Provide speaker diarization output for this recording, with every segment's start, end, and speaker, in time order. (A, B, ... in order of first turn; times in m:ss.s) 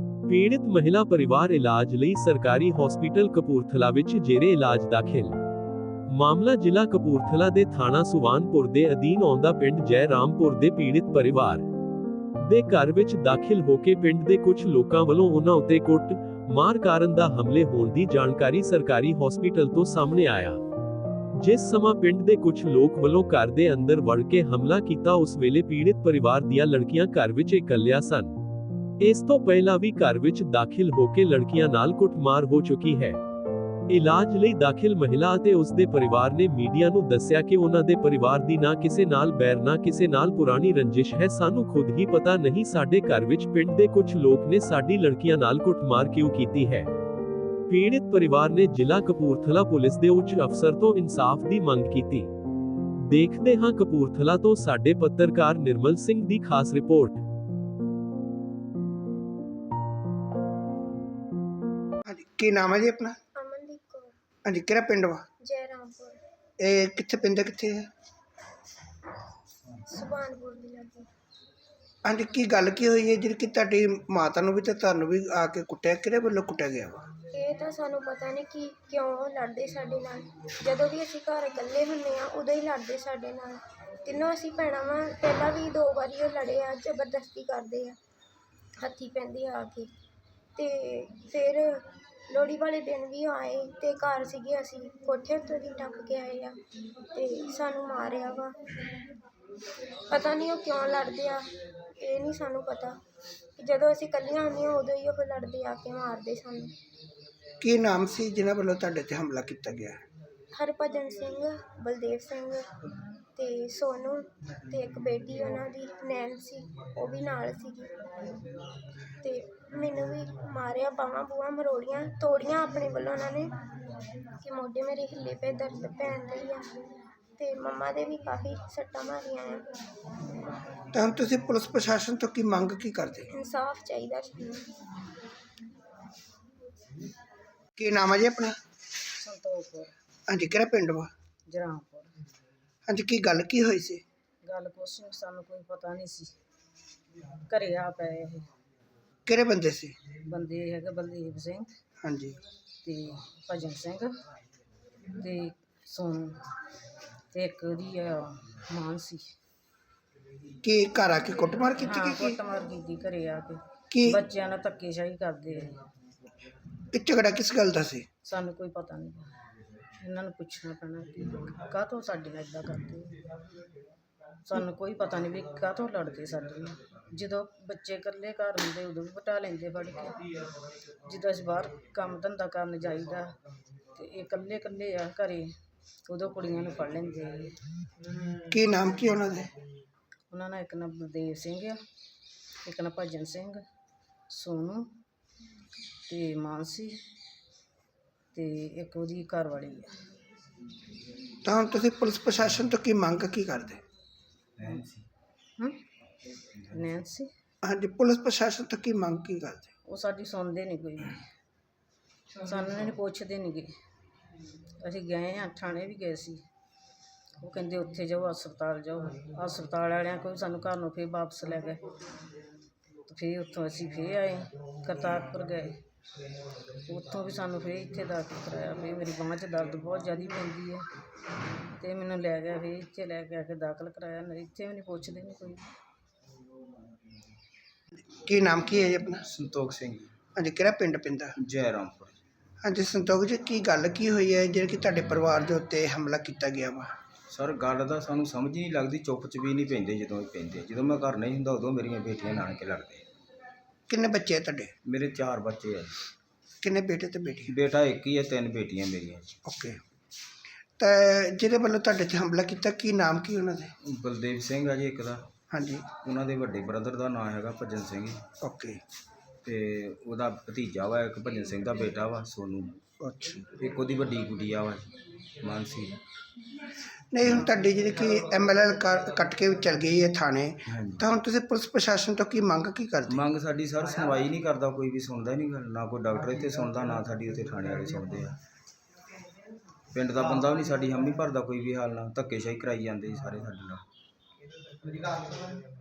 0:00.3-0:05.4 A
0:06.1-0:11.6 A
0:12.4-0:20.6 A
0:21.4-0:28.3 A
0:29.0-0:33.2 A
0:33.9-0:46.9 A
0:47.7-0:52.3 A
0:53.1-0:57.2 A
1:02.1-1:03.2 B
1:03.4-1:04.2 C
1:04.4-1:05.2 B
1:05.4-1:06.2 C
1:06.6-1:07.9 B
1:09.9-1:11.1 C
1:12.0-1:17.1 B
1:17.3-1:28.0 C
1:28.8-1:29.9 C
1:30.6-1:36.6 C
1:37.1-1:38.6 C
1:40.1-1:41.5 C
1:42.0-1:43.0 C
1:43.6-1:46.7 C
1:47.6-1:50.0 B
1:50.5-1:52.7 C
1:53.4-1:57.9 C
1:59.2-2:03.5 C
2:04.4-2:06.7 C
2:07.4-2:09.6 C
2:10.9-2:13.3 B
2:13.3-2:14.7 C
2:17.8-2:18.6 B
2:19.2-2:19.9 D
2:20.3-2:21.1 B
2:21.5-2:22.1 D
2:22.9-2:24.0 B
2:24.4-2:26.3 D
2:27.5-2:28.5 D
2:29.3-2:30.0 B
2:30.2-2:31.7 D
2:32.0-2:32.4 B
2:32.8-2:34.1 D
2:35.2-2:36.4 D
2:37.3-2:39.3 D
2:40.6-2:42.4 B
2:41.8-2:45.8 D
2:43.9-2:44.2 B
2:46.9-2:48.1 B
2:48.2-2:49.3 D
2:50.0-2:53.2 D
2:54.4-3:00.2 D
3:01.0-3:03.4 D
3:03.9-3:05.5 D
3:06.1-3:07.6 D
3:08.5-3:09.5 B
3:10.3-3:11.8 D
3:12.6-3:13.6 D
3:14.3-3:14.9 D
3:16.1-3:17.0 D
3:18.3-3:20.0 D
3:21.4-3:23.8 B
3:24.6-3:25.1 E
3:26.7-3:27.3 D
3:27.6-3:29.7 B
3:29.9-3:31.2 D
3:32.4-3:33.7 D
3:34.8-3:36.4 D
3:37.4-3:41.8 D
3:43.1-3:45.8 D
3:46.9-3:50.9 D
3:51.8-3:55.7 D
3:58.0-3:59.2 B
3:59.3-4:00.2 E
4:00.4-4:01.4 B
4:01.4-4:02.2 E
4:02.6-4:06.9 B
4:07.3-4:13.0 E
4:13.9-4:14.7 B
4:14.8-4:15.9 E
4:16.6-4:17.6 B
4:17.5-4:19.4 E
4:19.4-4:19.8 B
4:20.8-4:23.7 B
4:23.8-4:25.3 E
4:25.5-4:25.9 B
4:25.9-4:28.3 E
4:28.4-4:28.8 B
4:29.4-4:32.8 E
4:33.0-4:33.4 B
4:33.6-4:36.0 E
4:37.1-4:43.2 B
4:40.7-4:41.0 E
4:43.1-4:48.4 E
4:49.9-4:53.8 E